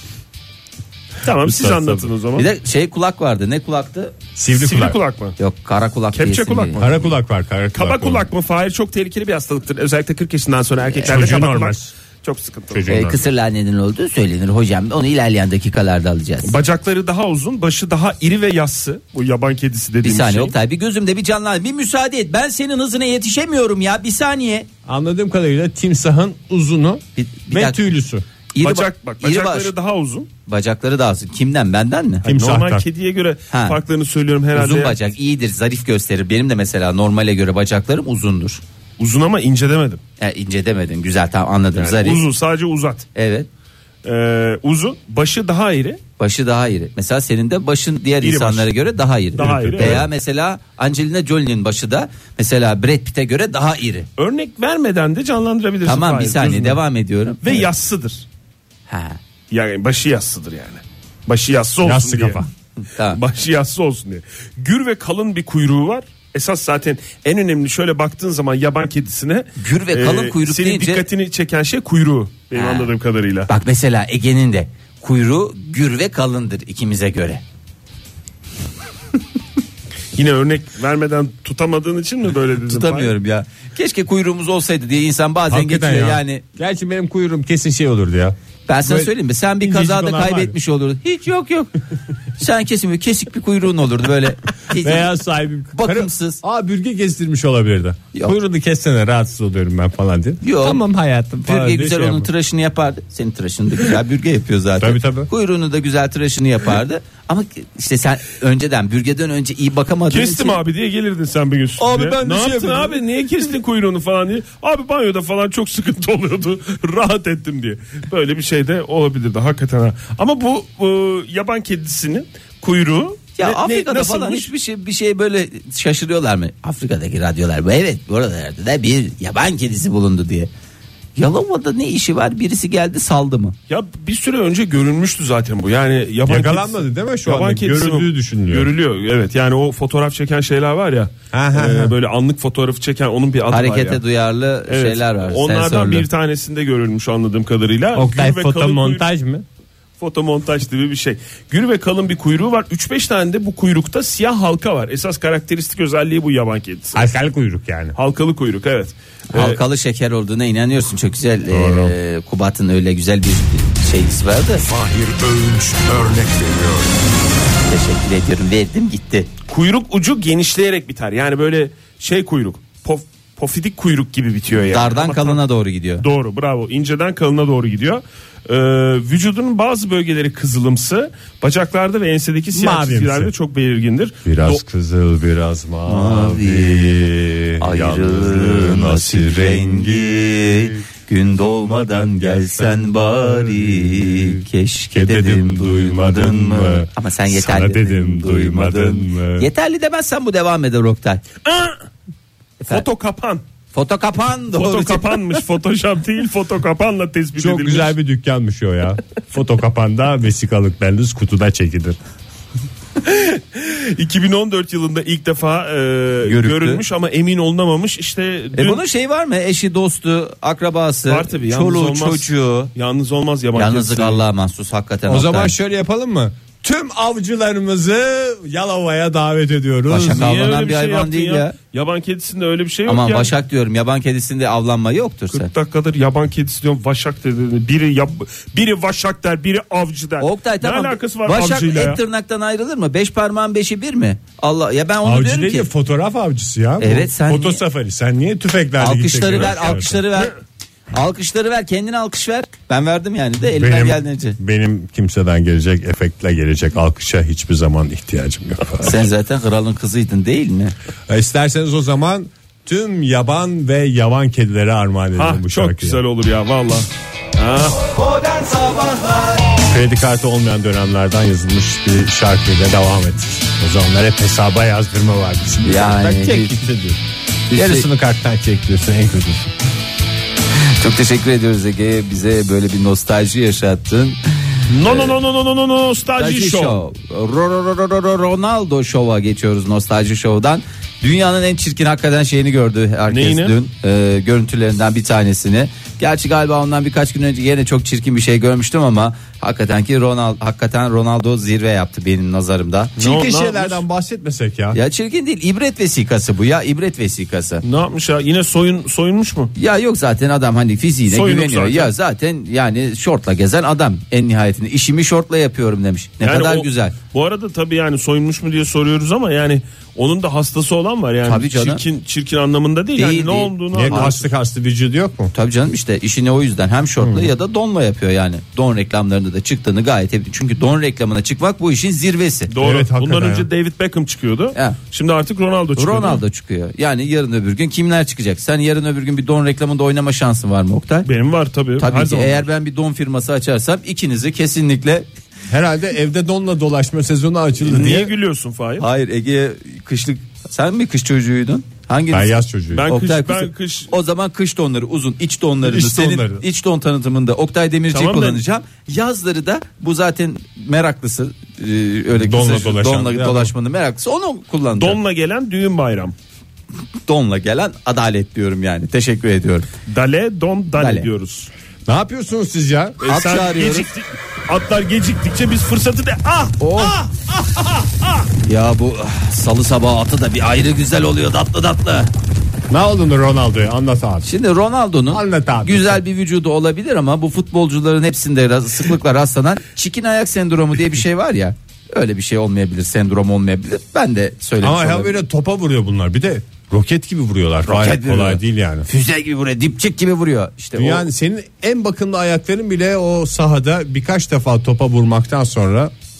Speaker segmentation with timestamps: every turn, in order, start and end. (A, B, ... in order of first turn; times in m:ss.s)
0:01.2-0:02.5 A
0:01.4-0:02.1 B
0:02.4-0:04.1 C
0:04.4-0:05.0 B
0:04.5-0:05.4 A
0:05.4-0:06.9 C
0:06.1-0:07.1 A
0:06.8-0:08.3 B
0:07.7-0:13.0 A
0:11.0-0:11.9 B
0:12.7-0:13.2 B
0:12.9-0:16.5 C
0:16.4-0:20.5 A
0:20.0-0:24.7 C
0:24.8-0:28.2 B
0:27.2-0:27.8 C
0:28.5-0:29.7 C
0:28.6-0:30.3 A
0:30.4-0:32.3 C
0:32.2-0:32.8 B
0:32.2-0:34.9 A
0:33.5-0:33.8 C
0:34.5-0:38.6 C
0:39.0-0:40.0 A
0:40.2-0:42.2 C
0:41.8-0:43.0 A
0:43.1-0:43.5 C
0:44.0-0:46.0 A
0:46.2-0:54.1 C
0:48.2-0:48.7 A
0:49.4-0:50.0 A
0:49.4-0:50.1 B
0:54.2-0:56.8 A
0:55.8-0:57.7 C
0:57.4-0:58.2 A
0:58.9-0:59.2 C
0:59.5-1:02.4 A
1:01.8-1:02.4 B
1:02.8-1:03.2 C
1:03.1-1:13.5 A
1:09.6-1:11.0 C
1:12.5-1:12.9 C
1:13.5-1:17.4 C
1:20.1-1:23.1 A
1:22.6-1:26.4 C
1:25.5-1:30.6 B
1:28.7-1:31.7 C
1:32.4-1:35.1 C
1:34.7-1:42.3 B
1:35.7-1:36.4 C
1:40.4-1:40.8 C
1:41.4-1:50.6 C
1:44.8-1:45.3 B
1:50.1-2:04.5 A
1:51.8-1:53.0 C
2:03.4-2:10.5 C
2:11.2-2:13.6 C
2:13.7-2:24.0 A
2:16.3-2:18.7 B
2:21.3-2:21.9 B
2:23.5-2:26.0 C
2:24.7-2:29.0 A
2:27.9-2:29.4 B
2:30.0-2:37.1 A
2:36.9-2:38.0 B
2:38.0-2:39.6 A
2:39.3-2:44.7 C
2:41.5-2:41.9 B
2:44.7-2:46.9 B
2:47.6-2:49.3 C
2:49.4-2:55.4 A
2:54.7-2:56.0 C
2:56.0-3:04.6 A
3:02.5-3:03.3 B
3:04.2-3:10.8 B
3:05.9-3:21.2 C
3:11.4-3:14.4 B
3:14.9-3:19.5 B
3:21.4-3:21.8 A
3:22.7-3:23.4 A
3:23.7-3:25.3 C
3:24.5-3:27.9 A
3:27.4-3:32.0 B
3:33.0-3:38.8 A
3:36.2-3:36.8 C
3:38.5-3:42.7 C
3:41.1-3:44.2 A
3:43.5-3:45.5 C
3:45.1-3:50.3 B
3:49.9-3:51.6 C
3:50.0-3:53.3 A
3:52.8-3:55.5 C
3:55.3-4:02.0 A
4:00.2-4:05.7 C
4:05.0-4:10.0 B
4:06.8-4:07.6 C
4:08.8-4:10.3 C
4:10.9-4:14.4 C
4:13.6-4:19.1 B
4:18.8-4:20.7 C
4:21.1-4:26.0 B
4:25.1-4:27.9 A
4:29.7-4:37.0 B
4:35.6-4:36.6 C
4:37.5-4:37.9 C
4:37.5-4:39.5 B
4:40.8-4:45.1 C
4:44.7-4:46.8 A
4:46.2-5:03.0 C
4:53.1-4:53.5 A
5:03.0-5:03.8 A
5:03.0-5:04.8 B
5:04.7-5:07.6 C
5:07.6-5:09.5 A
5:09.5-5:16.9 C
5:11.1-5:11.9 A
5:16.2-5:24.3 A
5:21.2-5:21.8 C
5:23.0-5:24.2 C
5:23.7-5:25.3 B
5:25.3-5:32.5 C
5:27.0-5:27.3 B
5:32.5-5:36.2 A
5:32.6-5:33.5 B
5:35.8-5:41.1 C
5:41.0-5:42.4 A
5:41.8-5:45.1 C
5:45.5-5:48.1 B
5:47.6-5:48.8 A
5:48.8-5:52.3 C
5:52.1-5:52.9 B
5:52.7-5:53.9 A
5:52.8-6:05.0 C
5:55.6-5:56.4 B
5:57.9-5:58.4 A
6:02.1-6:03.5 B
6:04.8-6:06.1 A
6:07.1-6:09.7 C
6:09.9-6:11.5 A
6:10.8-6:11.1 C
6:11.9-6:13.0 B
6:13.0-6:16.6 A
6:13.1-6:13.9 C
6:16.6-6:17.0 C
6:16.8-6:18.1 B
6:18.4-6:22.1 C
6:22.7-6:24.3 B
6:24.2-6:35.1 C
6:25.1-6:26.0 B
6:34.6-6:38.9 B
6:37.6-6:41.1 C
6:40.8-6:45.9 B